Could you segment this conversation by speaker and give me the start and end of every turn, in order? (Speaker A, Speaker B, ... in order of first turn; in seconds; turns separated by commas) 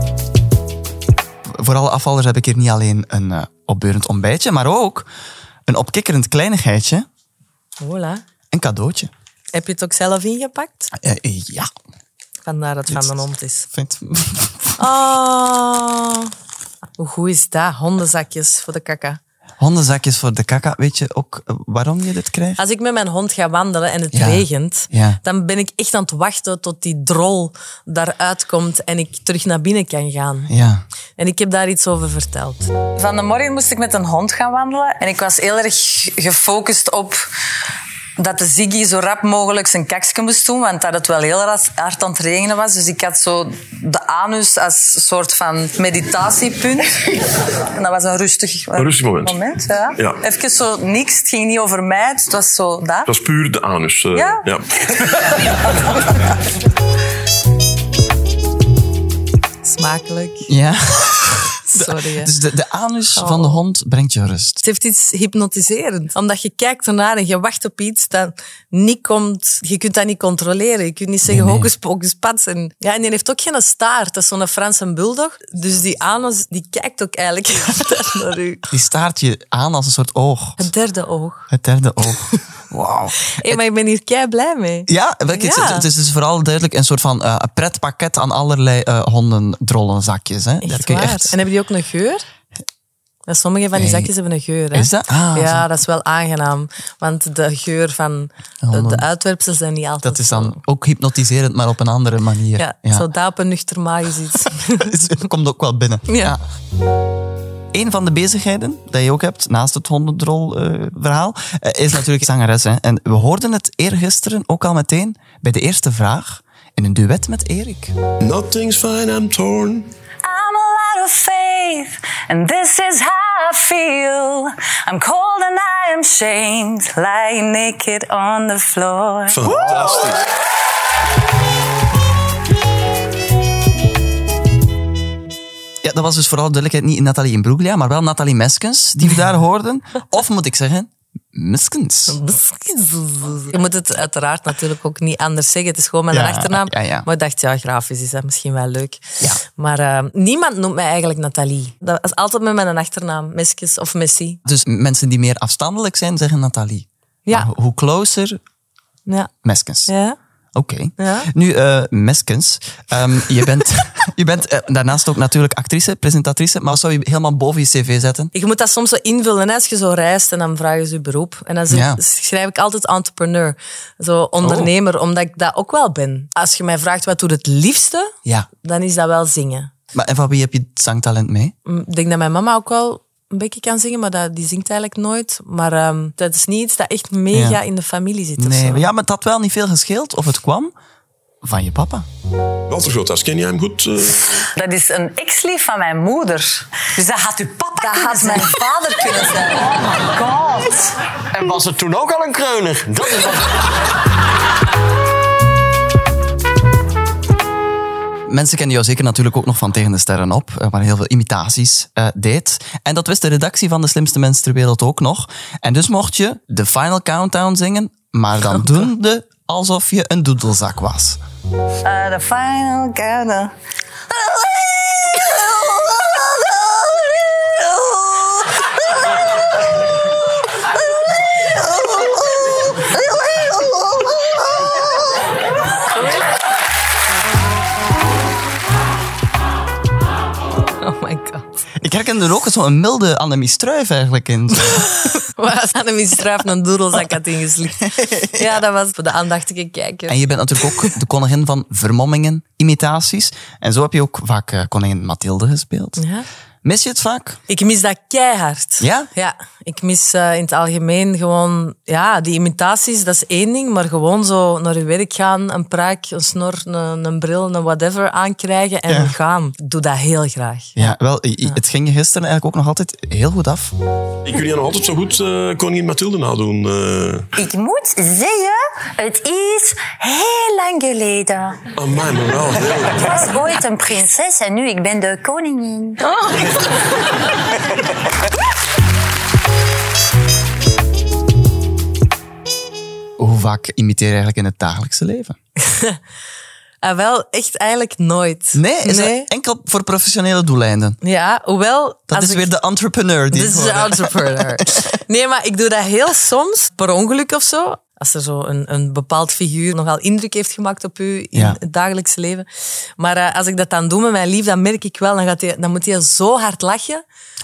Speaker A: 1.5-5.1, Speaker A: 5.7-7.0, Speaker B: 7.8-8.2, Speaker A: 8.5-9.1, Speaker B: 9.5-10.9, Speaker A: 10.9-11.7, Speaker B: 12.4-13.7, Speaker A: 12.9-13.2, Speaker A: 13.7-14.7, Speaker B: 14.8-16.3, Speaker B: 17.0-19.2, Speaker A: 19.6-22.6, Speaker B: 22.6-30.5, Speaker A: 24.1-25.2, Speaker A: 30.5-30.8, Speaker B: 31.2-37.2, Speaker B: 38.2-53.1, Speaker C: 48.7-49.4, Speaker C: 53.0-54.9, Speaker B: 54.1-54.5, Speaker B: 59.6-60.5, Speaker A: 60.5-64.6, Speaker B: 61.7-62.3, Speaker B: 63.2-63.6, Speaker B: 64.6-78.7, Speaker A: 71.2-71.7, Speaker A: 78.7-80.7, Speaker B: 80.6-81.5, Speaker A: 81.5-83.6, Speaker B: 83.3-85.9, Speaker A: 84.9-91.4, Speaker B: 90.6-92.2, Speaker B: 93.3-100.6, Speaker A: 93.8-94.1, Speaker A: 94.7-95.7, Speaker A: 98.6-99.0, Speaker A: 100.0-103.1, Speaker B: 102.6-105.0, Speaker A: 104.8-106.4, Speaker B: 106.1-106.3, Speaker A: 107.7-117.9, Speaker C: 118.2-119.9, Speaker D: 120.3-129.9, Speaker C: 129.3-130.2, Speaker A: 135.8-142.2, Speaker B: 142.1-154.4, Speaker A: 146.1-147.1, Speaker A: 154.4-158.4, Speaker B: 159.1-159.3, Speaker A: 159.4-159.9, Speaker B: 159.9-160.2, Speaker A: 160.5-168.3, Speaker B: 161.0-161.3, Speaker B: 168.3-179.7, Speaker A: 171.7-172.0, Speaker A: 174.4-174.7, Speaker A: 179.9-181.5, Speaker B: 181.7-188.9, Speaker A: 187.3-187.6, Speaker A: 188.4-190.7, Speaker A: 191.4-192.1, Speaker C: 192.7-194.4, Speaker D: 194.5-200.9, Speaker B: 197.8-199.7, Speaker E: 201.3-203.6, Speaker A: 208.3-221.2, Speaker D: 221.9-223.5, Speaker B: 240.8-241.6, Speaker A: 241.8-244.9, Speaker B: 244.7-250.9, Speaker A: 247.8-248.5, Speaker A: 250.1-256.0, Speaker B: 256.0-256.2, Speaker A: 256.6-257.4, Speaker B: 257.5-270.9, Speaker A: 258.8-259.1, Speaker A: 268.9-269.1, Speaker A: 270.8-273.7, Speaker C: 274.2-277.3, Speaker D: 277.4-281.6, Speaker C: 281.8-283.2, Speaker D: 283.0-286.1, Speaker A: 293.2-295.4, Speaker B: 295.7-296.0, Speaker B: 296.8-299.3, Speaker A: 298.5-301.0, Speaker B: 301.0-302.5, Speaker A: 302.1-304.8, Speaker B: 303.3-312.5, Speaker A: 311.3-311.6, Speaker B: 313.0-317.0